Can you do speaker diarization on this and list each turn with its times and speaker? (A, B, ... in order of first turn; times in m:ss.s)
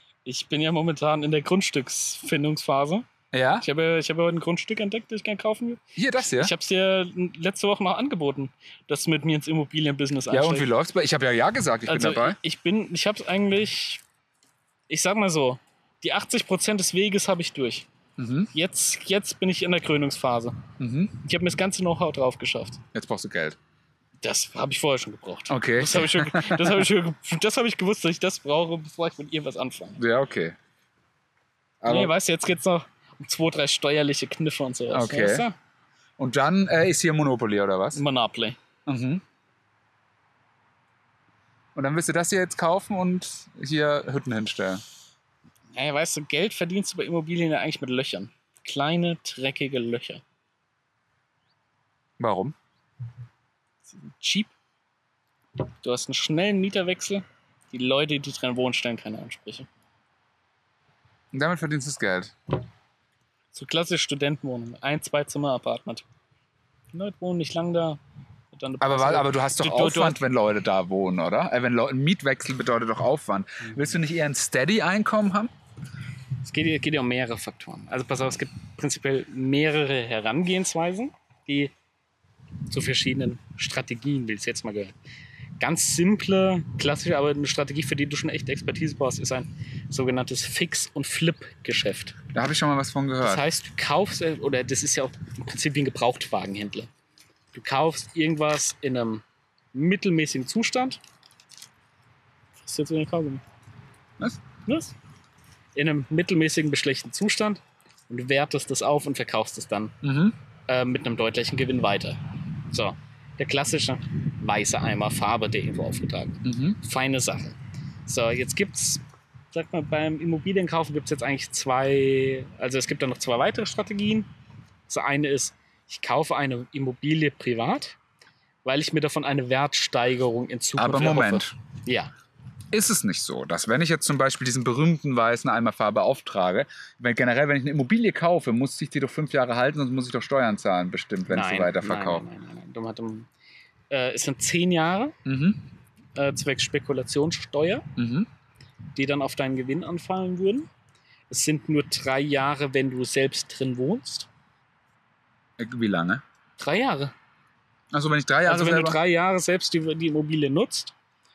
0:00.3-0:03.1 A
0:03.3-0:03.6 B
0:03.6-0:10.7 A
0:06.0-0:06.5 B
0:10.3-0:12.4 B
0:11.9-0:14.0 A
0:14.9-0:17.9 A
0:18.2-0:18.5 B
0:18.5-0:20.6 A
0:20.8-0:21.2 B
0:21.2-0:22.8 A
0:22.9-0:23.6 B
0:24.2-0:30.0 A
0:25.5-0:26.9 B
0:30.0-0:30.6 B
0:31.8-0:32.1 B
0:31.9-0:35.6 A
0:34.9-0:35.5 B
0:36.2-0:38.0 B
0:37.9-0:38.6 A
0:38.9-0:39.2 B
0:41.8-0:44.8 B
0:45.8-0:50.2 A
0:52.2-0:52.6 B
0:53.9-0:54.5 A
0:55.8-0:59.7 A
1:01.3-1:02.3 B
1:03.5-1:06.0 A
1:06.9-1:08.0 A
1:08.5-1:10.2 A
1:08.8-1:15.5 B
1:16.4-1:21.7 A
1:22.7-1:24.9 A
1:25.6-1:32.2 A
1:32.3-1:33.5 B
1:33.2-1:36.9 A
1:37.5-1:41.0 A
1:42.6-1:43.4 A
1:44.7-1:44.9 A
1:45.8-1:50.0 A
1:50.0-1:50.4 B
1:50.7-2:04.3 A
1:56.4-1:56.8 B
2:04.9-2:08.0 A
2:08.6-2:12.1 A
2:10.8-2:11.5 B
2:12.7-2:22.2 B
2:21.3-2:23.3 A
2:23.9-2:25.2 A
2:25.2-2:25.6 B
2:26.2-2:27.9 A
2:28.0-2:28.3 B
2:29.0-2:30.7 A
2:31.3-2:34.3 A
2:35.6-2:36.2 B
2:36.6-2:37.1 A
2:37.9-2:39.0 B
2:38.5-2:40.9 A